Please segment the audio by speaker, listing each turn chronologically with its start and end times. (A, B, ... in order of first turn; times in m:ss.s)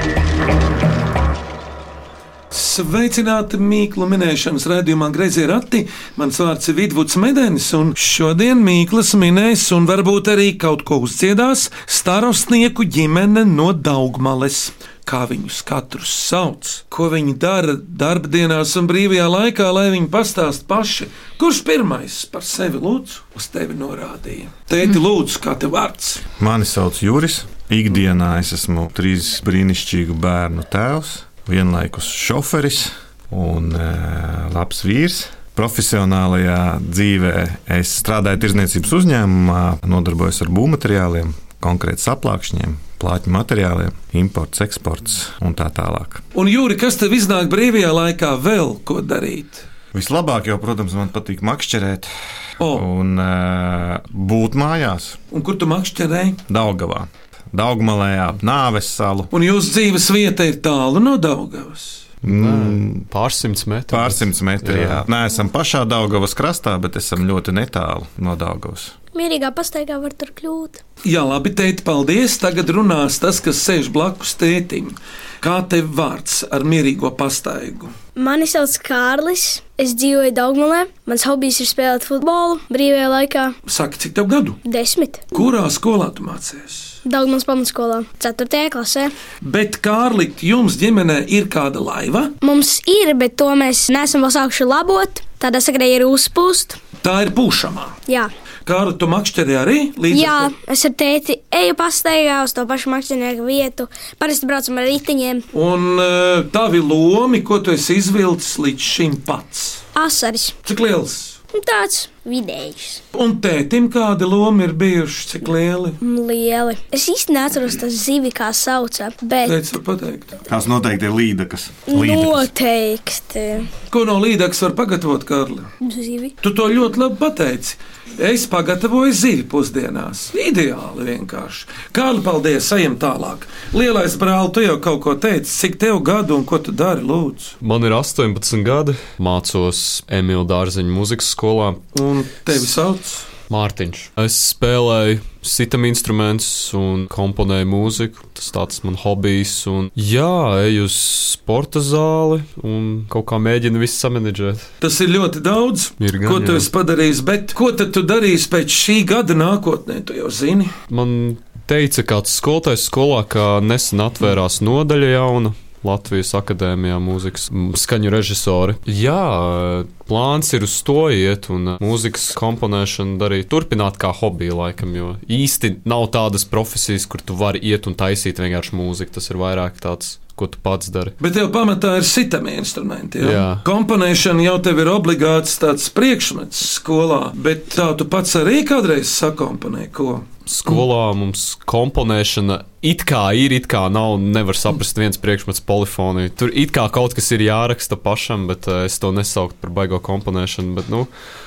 0:02.5-0:26.2 A
0:26.4-0:46.2 B
0:46.3-0:49.6 A
0:49.9-0:52.1 B
0:52.6-0:55.2 B
0:55.3-0:56.4 A
0:56.5-0:59.3 B
0:59.3-1:02.1 A
1:02.2-1:03.1 B
1:02.3-1:05.1 C
1:03.9-1:08.9 B
1:09.1-1:10.8 D
1:11.0-1:17.9 A
1:18.2-1:23.6 D
1:23.7-1:24.6 A
1:24.6-1:25.4 D
1:25.3-1:27.0 A
1:27.0-1:29.1 D
1:29.4-1:32.4 A
1:32.4-1:36.8 D
1:37.0-1:38.0 A
1:38.7-1:40.5 A
1:40.1-1:45.5 D
1:45.5-1:49.8 A
1:50.0-1:50.6 D
1:50.6-1:51.4 A
1:51.5-1:53.0 D
1:53.1-1:56.0 A
1:56.0-1:59.6 D
1:59.4-2:00.3 A
2:00.5-2:02.5 B
2:01.9-2:03.7 D
2:03.9-2:05.7 A
2:05.8-2:06.4 D
2:06.4-2:17.6 A
2:17.6-2:21.8 C
2:21.9-2:23.3 A
2:23.5-2:34.7 C
2:34.8-2:40.7 A
2:36.0-2:36.7 C
2:40.9-3:01.2 C
3:01.2-3:10.8 A
3:03.2-3:03.6 C
3:10.5-3:21.1 C